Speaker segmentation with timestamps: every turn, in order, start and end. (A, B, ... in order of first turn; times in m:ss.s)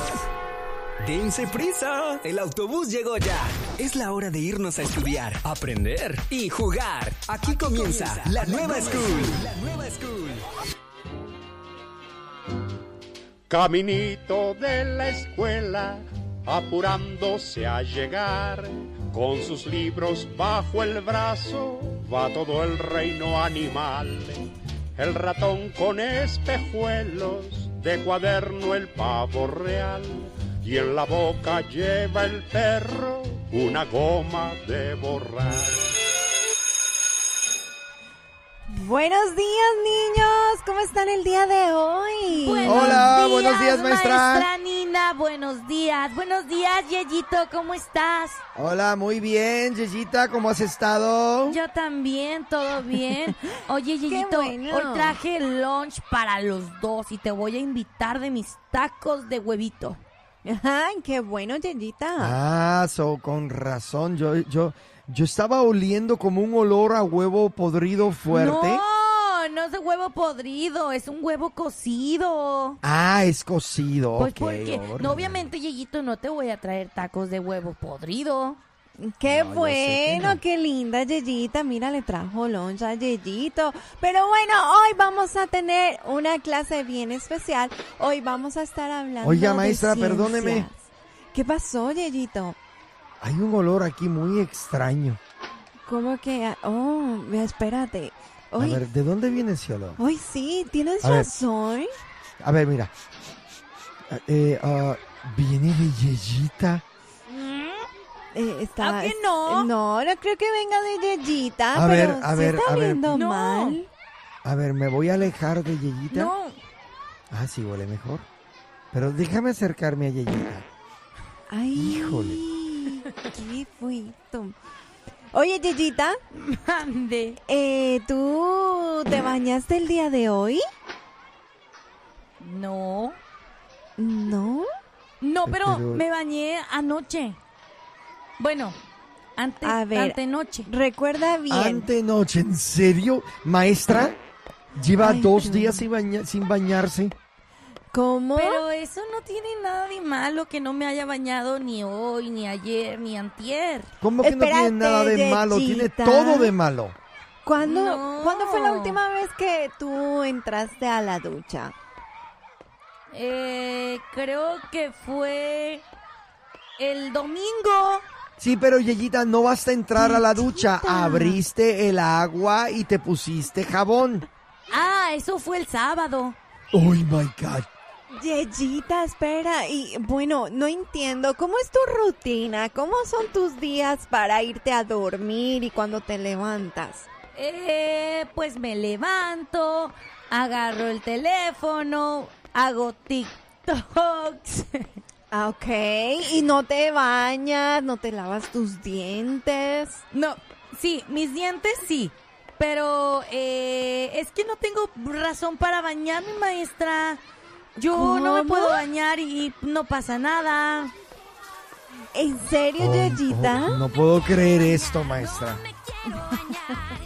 0:01.0-0:10.4 A
0:13.5-0:35.8 B
0:38.7-0:43.0 C
0:42.4-0:48.4 D
0:42.6-0:44.5 E
0:48.5-0:51.6 E
0:51.5-1:00.0 D
0:54.1-0:55.2 C
1:00.4-1:02.4 C
1:02.2-1:08.8 E
1:08.3-1:12.8 D
1:12.8-1:15.5 E
1:14.2-1:18.6 D
1:19.0-1:32.6 C
1:19.3-1:20.4 E
1:29.2-1:30.7 E
1:33.2-1:35.2 E
1:35.9-1:38.8 C
1:38.6-1:40.0 E
1:40.0-1:41.9 C
1:41.0-1:41.3 E
1:42.4-1:42.9 E
1:44.1-1:46.8 E
1:47.3-1:47.9 D
1:48.3-1:53.9 C
1:48.8-1:49.7 D
1:51.7-1:53.0 E
1:53.1-1:53.8 D
1:54.4-1:56.3 E
1:56.1-1:56.6 D
1:57.3-1:58.3 E
1:58.9-2:00.6 E
2:01.5-2:04.5 C
2:01.7-2:02.4 E
2:05.3-2:06.2 C
2:06.3-2:07.4 D
2:07.5-2:10.6 C
2:12.4-2:13.2 D
2:14.0-2:14.6 C
2:15.2-2:17.4 D
2:15.4-2:16.0 E
2:18.4-2:18.8 D
2:19.4-2:20.7 D
2:19.6-2:21.9 C
2:21.5-2:24.2 E
2:24.8-2:27.1 E
2:25.0-2:25.8 C
2:27.9-2:28.6 C
2:28.3-2:33.9 D
2:34.0-2:37.0 E
2:34.2-2:36.5 C
2:37.4-2:41.7 C
2:37.6-2:39.0 D
2:43.1-2:45.8 D
2:46.8-2:48.0 D
2:48.4-2:54.2 E
2:50.0-2:51.4 C
2:54.7-2:56.4 D
2:56.7-2:57.7 E
2:58.1-3:07.0 C
3:07.3-3:14.9 D
3:15.3-3:20.0 C
3:20.1-3:27.2 D
3:27.8-3:30.9 D
3:27.9-3:28.8 C
3:32.1-3:33.8 C
3:32.8-3:35.6 E
3:36.0-3:36.9 C